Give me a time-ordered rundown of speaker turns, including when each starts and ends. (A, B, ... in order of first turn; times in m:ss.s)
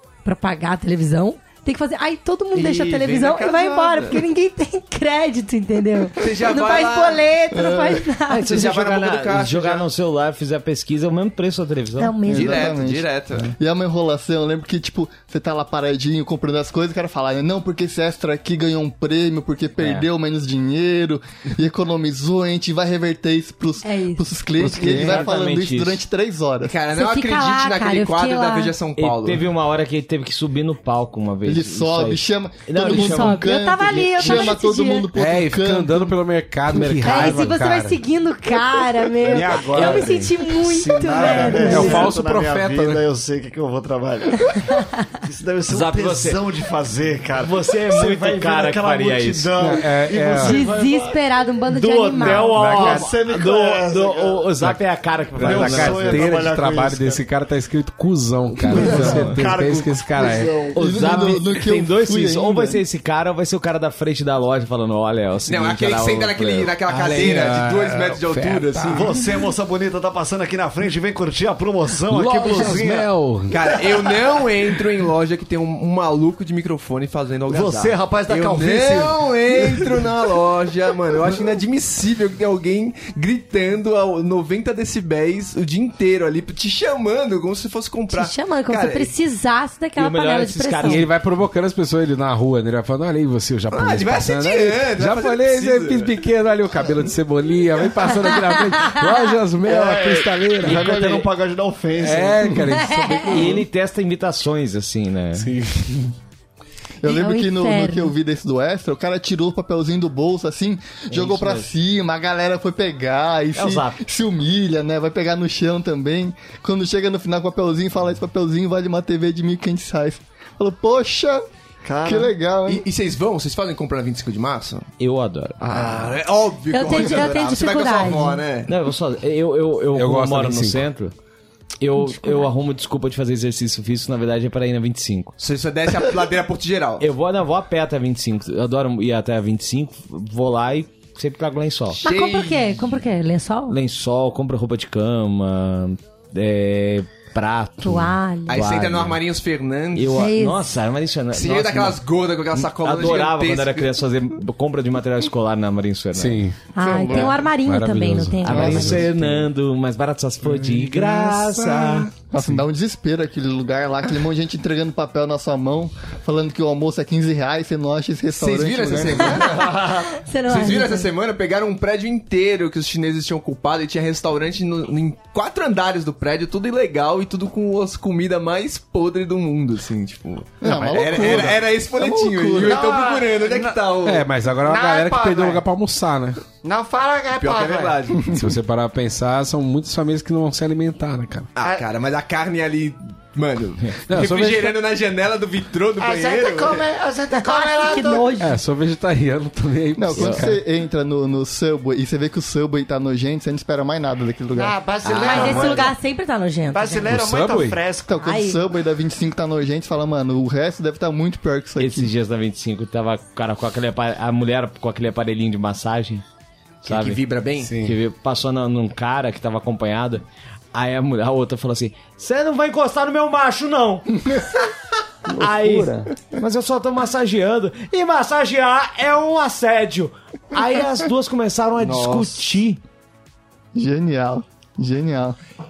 0:00.2-0:08.6 A
0:02.5-0:04.2 B
0:06.2-0:07.3 B
0:07.5-0:08.1 C
0:08.3-0:12.2 D
0:08.5-0:09.9 B
0:12.0-0:12.7 A
0:12.3-0:26.7 C
0:12.3-0:13.5 B
0:19.8-0:20.1 D
0:23.8-0:24.2 A
0:24.6-0:26.0 D
0:26.6-0:29.5 B
0:26.9-0:28.7 A
0:29.0-0:33.5 D
0:31.4-0:36.2 C
0:32.8-0:35.1 A
0:34.2-0:34.5 D
0:35.2-0:38.0 E
0:36.7-0:37.6 D
0:37.0-0:42.1 A
0:39.2-0:40.5 D
0:39.4-0:39.8 F
0:40.6-0:44.6 F
0:41.2-0:41.9 D
0:41.5-0:43.0 E
0:45.2-0:51.1 F
0:45.7-0:46.4 D
0:47.4-0:49.8 D
0:49.6-0:50.6 E
0:50.4-0:52.6 A
0:51.7-0:56.5 D
0:52.2-0:54.7 F
0:52.6-0:53.0 E
0:55.4-0:57.2 F
0:55.4-1:00.6 E
0:58.6-0:59.7 D
0:58.7-1:00.8 F
1:00.7-1:07.3 D
1:00.8-1:02.8 C
1:05.5-1:09.1 B
1:06.9-1:09.2 E
1:08.9-1:13.1 F
1:12.1-1:13.6 E
1:13.5-1:29.1 B
1:17.5-1:20.0 F
1:28.1-1:31.1 A
1:30.0-1:31.1 D
1:30.8-1:40.9 E
1:33.7-1:36.2 B
1:38.7-1:39.0 A
1:39.6-1:42.6 F
1:40.6-1:41.3 D
1:42.0-1:43.7 E
1:42.8-1:43.3 A
1:43.2-1:45.5 D
1:45.3-1:46.1 E
1:47.0-2:01.4 C
1:47.0-1:48.1 A
1:51.1-1:51.7 D
1:53.6-1:54.0 D
2:01.8-2:02.3 F
2:02.0-2:02.8 C
2:02.7-2:04.9 B
2:05.0-2:05.9 D
2:05.6-2:08.7 B
2:05.7-2:06.1 F
2:06.7-2:08.4 A
2:08.7-2:11.1 D
2:09.9-2:10.8 E
2:11.8-2:15.3 D
2:12.0-2:12.5 A
2:15.4-2:17.1 B
2:17.0-2:22.0 D
2:22.0-2:22.7 B
2:22.0-2:23.8 A
2:23.7-2:29.2 D
2:27.8-2:28.6 A
2:28.5-2:30.2 B
2:29.9-2:32.0 D
2:30.1-2:30.7 A
2:31.3-2:33.9 B
2:32.5-2:36.4 D
2:36.1-2:36.6 E
2:36.7-2:39.1 A
2:36.9-2:37.3 C
2:37.1-2:39.4 E
2:38.4-2:42.1 D
2:38.6-2:39.1 C
2:40.5-2:41.4 E
2:41.4-2:42.1 B
2:42.3-2:49.8 C
2:48.3-3:04.3 B
2:49.3-2:51.1 A
3:00.6-3:02.8 C
3:02.7-3:03.3 G
3:02.7-3:04.0 F
3:04.0-3:06.4 E
3:04.6-3:05.6 G
3:04.8-3:05.6 F
3:06.6-3:07.9 F
3:07.2-3:07.9 G
3:07.4-3:08.4 B
3:08.3-3:11.5 E
3:11.6-3:16.9 B
3:14.1-3:14.8 E
3:16.0-3:18.3 G
3:17.4-3:18.6 A
3:18.4-3:20.6 E
3:20.0-3:24.8 C
3:20.2-3:20.5 D
3:24.6-3:25.9 G
3:25.0-3:25.9 F
3:25.1-3:27.1 A
3:26.7-3:28.2 F
3:27.1-3:27.8 E
3:28.0-3:32.1 C
3:28.2-3:28.6 A
3:31.8-3:36.2 D
3:36.8-3:37.2 D
3:36.8-3:37.7 B
3:37.6-3:38.0 E
3:37.8-3:44.1 D
3:45.3-3:52.8 D
3:45.5-3:45.9 C
3:51.8-3:52.4 F
3:53.8-3:55.4 C